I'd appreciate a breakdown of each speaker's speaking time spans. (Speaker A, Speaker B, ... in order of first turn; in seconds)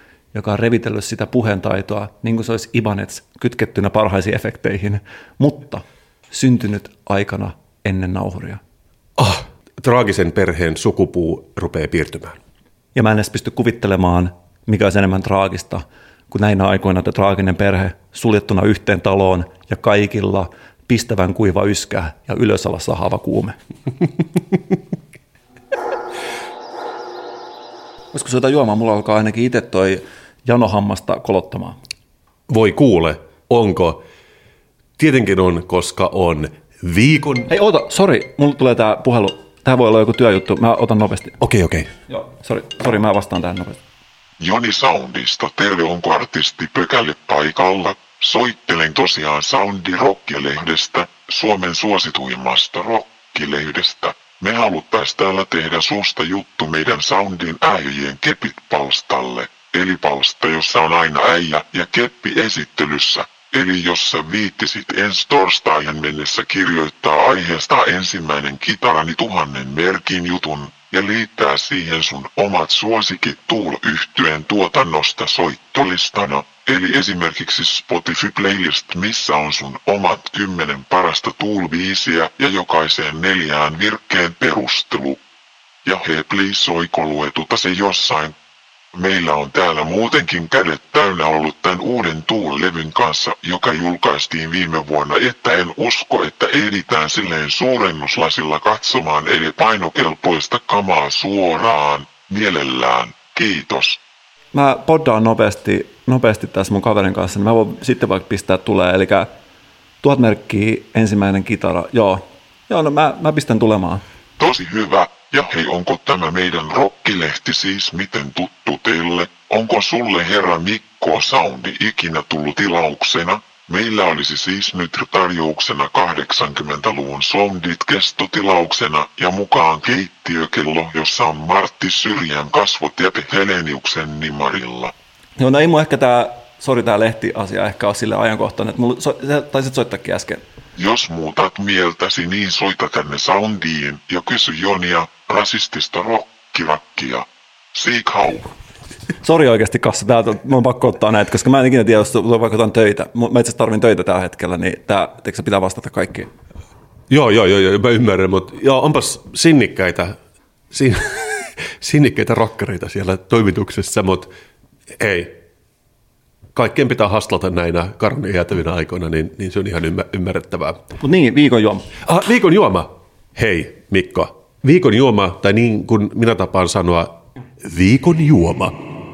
Speaker A: 0.3-8.6, 12.9-23.6, 28.1-31.8, 37.5-41.4, 42.1-43.8, 104.5-109.3, 110.0-114.0, 135.4-140.4, 149.2-156.3, 171.0-171.9
Speaker B: 9.2-12.4, 32.5-34.0, 35.0-37.5, 41.4-41.9, 157.1-160.2, 160.7-164.3, 164.9-165.4, 166.5-170.8, 172.0-178.7
Speaker C: 44.4-85.2, 85.8-88.3, 88.9-104.0, 114.4-134.9, 140.8-148.5